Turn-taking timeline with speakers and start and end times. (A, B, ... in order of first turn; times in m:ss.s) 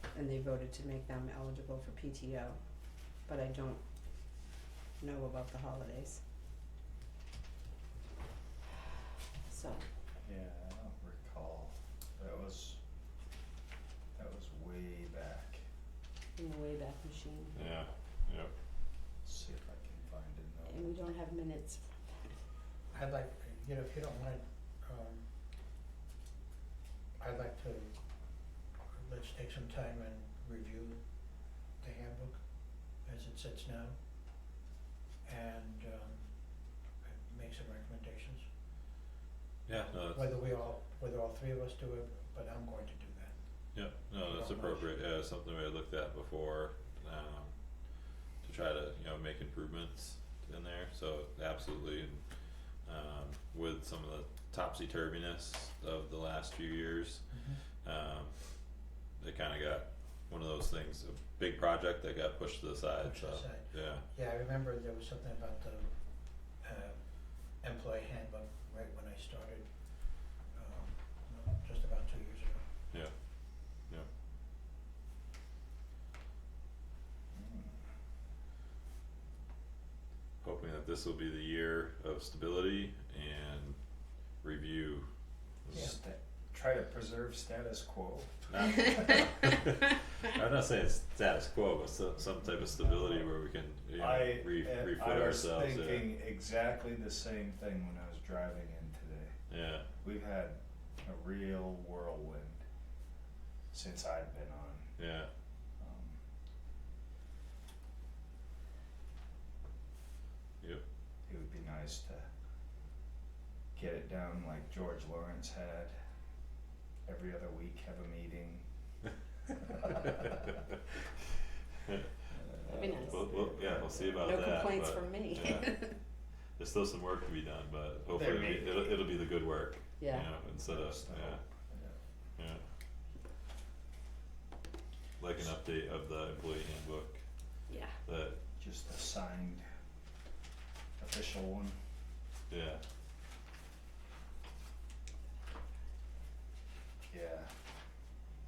0:00.1-0:02.6 A
0:03.2-0:03.8 A
0:05.0-0:06.2 A
0:09.5-0:09.8 A
0:10.2-0:12.8 B
0:14.2-0:15.6 B
0:16.4-0:17.6 A
0:17.5-0:18.5 C
0:19.2-0:20.9 B
0:20.7-0:22.3 A
0:22.9-0:25.3 D
0:27.2-0:27.9 D
0:28.9-0:31.0 D
0:31.8-0:33.9 D
0:35.2-0:36.3 D
0:37.0-0:38.4 D
0:39.6-0:40.3 C
0:39.8-0:43.3 D
0:43.7-0:47.5 C
0:44.2-0:44.9 D
0:48.4-0:52.2 C
0:52.8-0:58.4 C
0:57.3-0:57.6 D
0:59.2-1:04.0 C
1:03.0-1:12.6 D
1:17.3-1:17.8 B
1:20.4-1:23.8 C
1:24.4-1:25.1 C
1:25.6-1:25.9 C
1:25.7-1:29.2 B
1:28.5-1:36.1 C
1:34.0-1:39.3 B
1:39.5-1:39.9 C
1:40.0-1:42.6 B
1:43.7-1:45.0 B
1:45.0-1:45.3 C
1:45.8-1:46.2 B
1:51.3-1:52.3 B
1:53.7-1:55.9 B
1:57.0-1:58.6 B
2:02.3-2:04.6 B
2:02.6-2:03.3 A
2:03.0-2:05.8 C
2:04.2-2:05.9 A
2:06.6-2:11.4 C
2:08.1-2:09.0 B
2:10.0-2:10.3 A
2:10.6-2:12.0 B
2:12.4-2:12.6 C
2:15.2-2:17.2 C
2:18.0-2:18.4 C
2:18.6-2:19.6 B
2:21.0-2:21.8 B
2:22.5-2:22.8 C
2:27.1-2:27.5 B